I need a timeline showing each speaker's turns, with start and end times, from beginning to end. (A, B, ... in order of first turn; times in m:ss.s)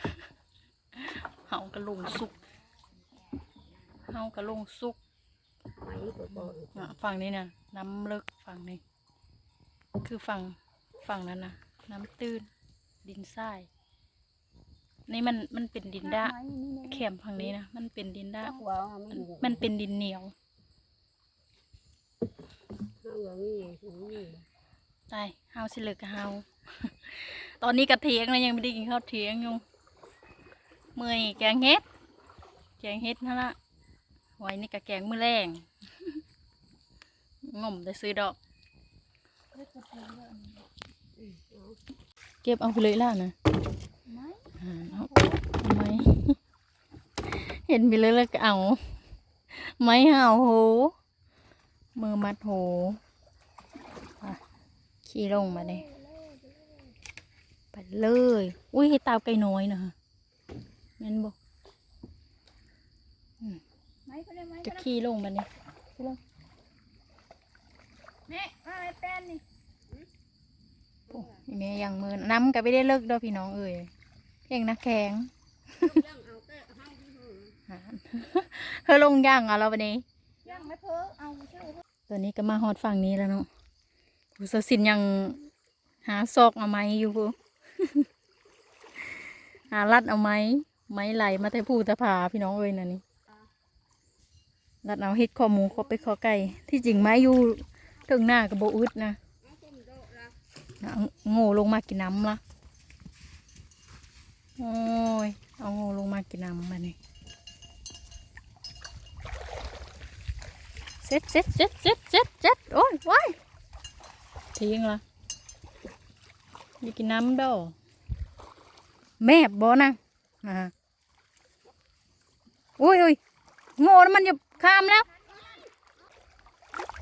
0:00.9-0:02.4 A
0:04.1-0:05.0 A
0:05.8-0:06.9 B
0:06.4-0:08.8 A
0:10.0-0:12.5 A
0:13.0-0:13.7 A
0:15.1-0:16.3 A
0:16.0-0:17.5 C
0:16.9-0:18.6 A
0:18.4-0:19.6 B
0:19.1-0:20.3 A
0:23.0-0:24.4 B
0:25.1-0:29.6 A
0:31.0-0:31.8 A
0:32.8-0:33.6 A
0:34.4-0:36.2 A
0:37.4-0:38.4 A
0:39.5-0:40.7 C
0:41.2-0:41.8 B
0:42.4-0:43.3 A
0:44.1-0:45.4 C
0:44.6-0:46.4 A
0:47.2-0:48.9 A
0:49.5-0:50.9 A
0:51.9-0:53.0 A
0:55.0-0:55.8 A
0:55.3-0:56.9 C
0:57.7-0:59.9 A
1:01.0-1:01.3 A
1:04.0-1:04.8 C
1:04.6-1:05.5 A
1:08.3-1:09.4 C
1:11.1-1:11.4 B
1:11.1-1:13.9 A
1:14.5-1:15.9 A
1:15.8-1:17.6 B
1:17.7-1:20.0 A
1:20.4-1:21.8 C
1:22.1-1:23.5 A
1:24.4-1:25.4 A
1:26.0-1:28.1 A
1:29.7-1:33.0 A
1:34.8-1:39.2 A
1:39.4-1:40.4 B
1:40.8-1:42.4 A
1:44.6-1:47.0 A
1:51.0-1:53.4 A
1:54.6-1:55.0 A
1:56.8-1:57.7 A
1:59.2-2:00.7 A
2:02.8-2:03.2 A
2:03.8-2:05.1 A